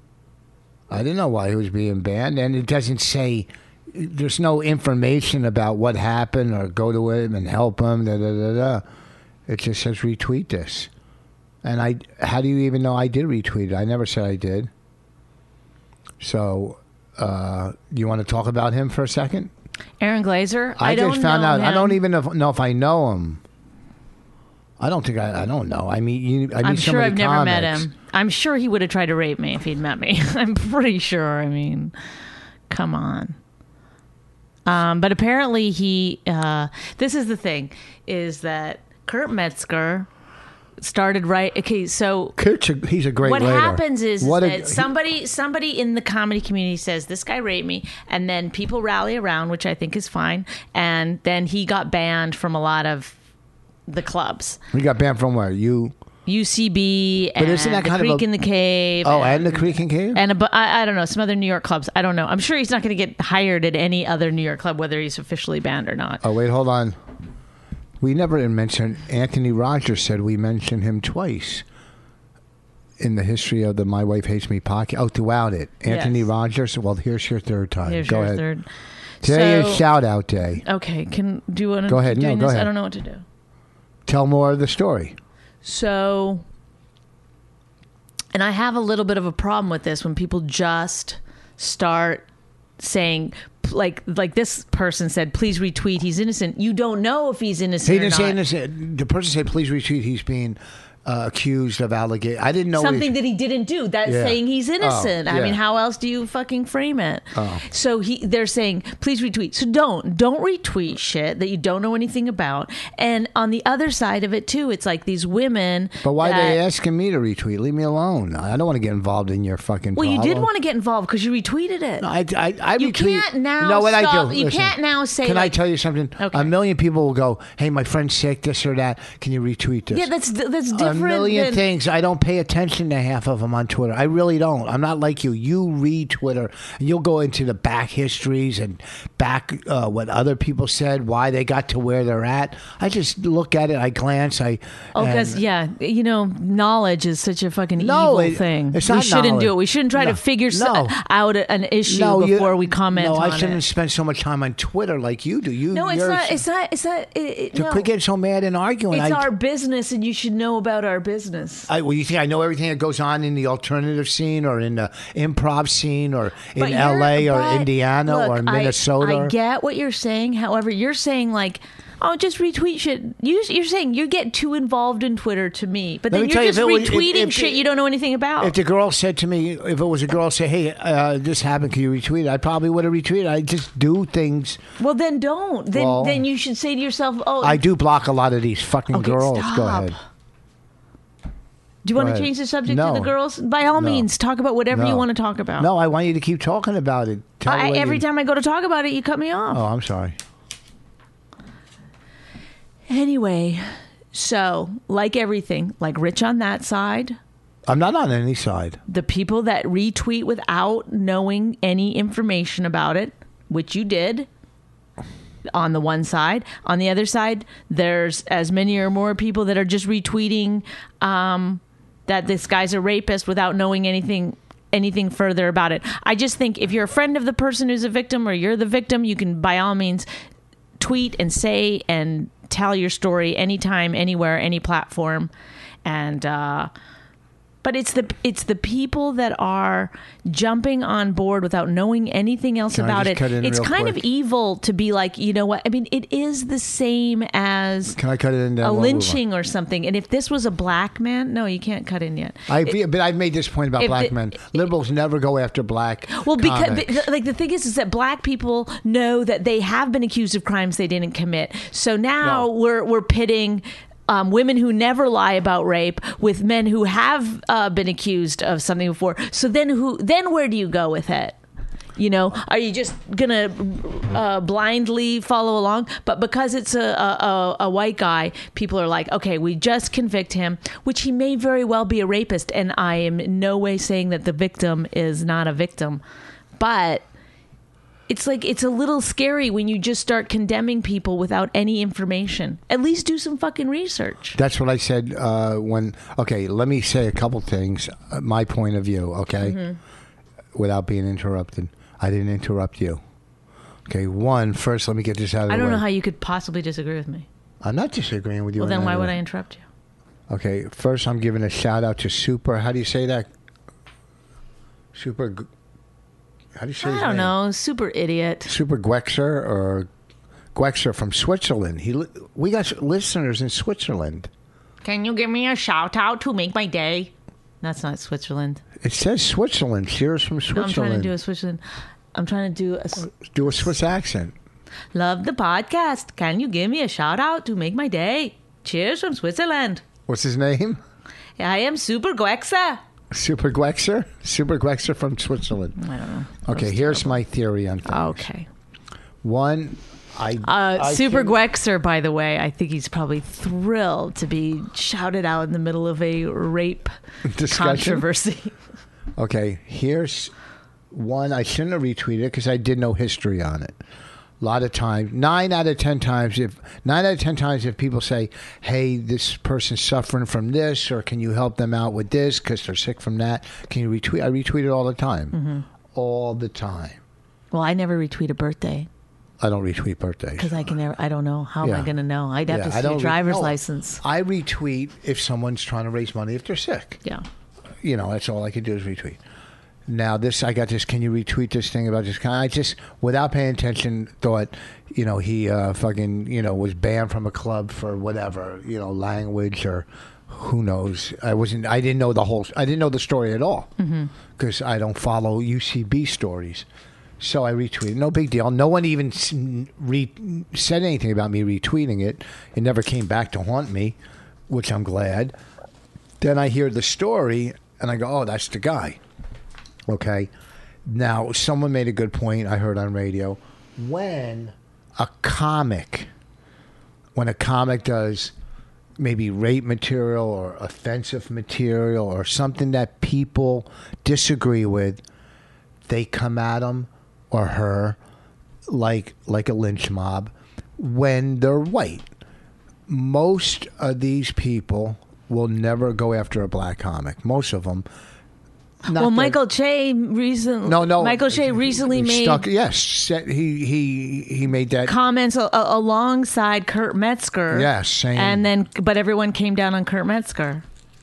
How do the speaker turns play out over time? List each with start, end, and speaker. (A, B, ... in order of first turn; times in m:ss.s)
0:00.9-0:08.8 A
0:09.5-0:10.9 A
0:11.6-0:14.7 A
0:16.2-0:19.5 A
0:20.0-0:22.0 B
0:20.8-0:23.4 A
0:24.8-0:27.9 A
0:26.6-0:31.9 B
0:32.7-0:33.4 B
0:34.6-0:40.1 B
0:40.8-0:42.4 B
0:42.4-0:44.9 A
0:43.2-0:53.2 B
0:53.9-0:54.6 B
0:54.7-0:55.9 A
0:56.2-1:06.2 B
0:57.4-0:58.2 A
0:59.0-1:00.2 A
1:06.2-1:07.0 A
1:08.0-1:11.6 A
1:13.0-1:18.4 A
1:15.9-1:16.3 B
1:17.8-1:18.6 B
1:19.2-1:19.8 B
1:19.2-1:20.6 A
1:20.6-1:23.2 B
1:21.9-1:22.7 A
1:24.0-1:25.2 A
1:25.6-1:26.4 B
1:28.3-1:32.2 B
1:32.8-1:38.4 B
1:37.8-1:43.1 A
1:42.7-1:56.6 B
1:44.0-1:45.6 A
1:47.3-1:47.6 A
1:56.0-2:00.5 A
1:59.9-2:02.1 B
2:02.0-2:10.1 A
2:02.8-2:05.6 B
2:06.2-2:06.5 B
2:09.9-2:11.6 B
2:10.7-2:25.4 A
2:24.9-2:33.6 B
2:27.8-2:31.0 A
2:31.8-2:36.4 A
2:35.7-2:37.9 B
2:37.5-2:39.3 A
2:38.9-2:41.7 B
2:41.7-2:49.3 A
2:46.6-2:58.6 B
2:56.1-2:57.6 A
2:58.4-3:04.6 A
3:04.8-3:07.6 B
3:05.7-3:06.2 A
3:07.4-3:09.9 A
3:08.9-3:10.0 B
3:11.8-3:15.7 B
3:11.9-3:13.1 A
3:13.8-3:14.1 A
3:14.7-3:15.0 A
3:15.6-3:18.0 A
3:17.4-3:19.6 B
3:19.5-3:20.2 A
3:22.9-3:27.2 B
3:27.6-3:28.8 A
3:28.9-3:34.3 B
3:35.5-3:50.1 B
3:50.8-3:55.3 B
3:55.8-3:56.7 B
3:57.6-4:08.0 B
4:02.7-4:04.0 A
4:07.9-4:09.2 A
4:08.6-4:12.7 B
4:12.5-4:17.0 A
4:13.8-4:14.1 B
4:16.1-4:31.4 B
4:32.0-4:46.0 B
4:46.6-4:47.0 B
4:48.1-4:54.4 B
4:54.4-4:59.6 A
4:59.4-4:59.8 B
5:00.5-5:03.0 A
5:03.9-5:05.8 A
5:05.5-5:07.3 B
5:07.6-5:09.1 A
5:08.6-5:09.6 B
5:10.3-5:13.3 A
5:14.9-5:15.5 A
5:16.6-5:17.3 A
5:16.8-5:18.5 B
5:18.5-5:19.9 A
5:20.5-5:24.3 A
5:24.8-5:28.6 B
5:28.8-5:31.1 A
5:30.5-5:31.6 B
5:32.1-5:33.1 B
5:33.1-5:34.3 A
5:34.9-5:39.8 B
5:40.1-5:40.8 A
5:41.4-5:42.8 B
5:43.1-5:45.8 A
5:45.8-5:47.2 B
5:46.4-5:48.2 A
5:47.8-5:48.5 B
5:49.2-5:51.4 A
5:50.4-5:56.9 B
5:57.2-5:58.1 A
5:57.4-5:58.5 B
5:59.2-6:00.3 A
6:00.9-6:03.8 A
6:04.4-6:15.4 A
6:15.3-6:15.6 B
6:15.9-6:17.0 A
6:17.5-6:18.9 B
6:19.4-6:20.6 A
6:20.4-6:24.0 B
6:21.6-6:21.9 A
6:22.5-6:27.0 A
6:27.8-6:29.2 A
6:29.9-6:43.7 A
6:43.8-6:44.1 B
6:44.4-6:46.6 A
6:47.2-6:54.0 A
6:54.5-6:55.3 A
6:56.2-6:59.0 A
6:59.9-7:00.3 A
7:00.8-7:06.1 A
7:07.1-7:08.3 A
7:09.0-7:15.0 A
7:15.8-7:18.0 A
7:18.7-7:22.0 A
7:22.9-7:27.8 A
7:28.8-7:29.4 A
7:28.9-7:32.4 B
7:30.6-7:35.0 A
7:34.8-7:40.6 B
7:37.5-7:38.4 A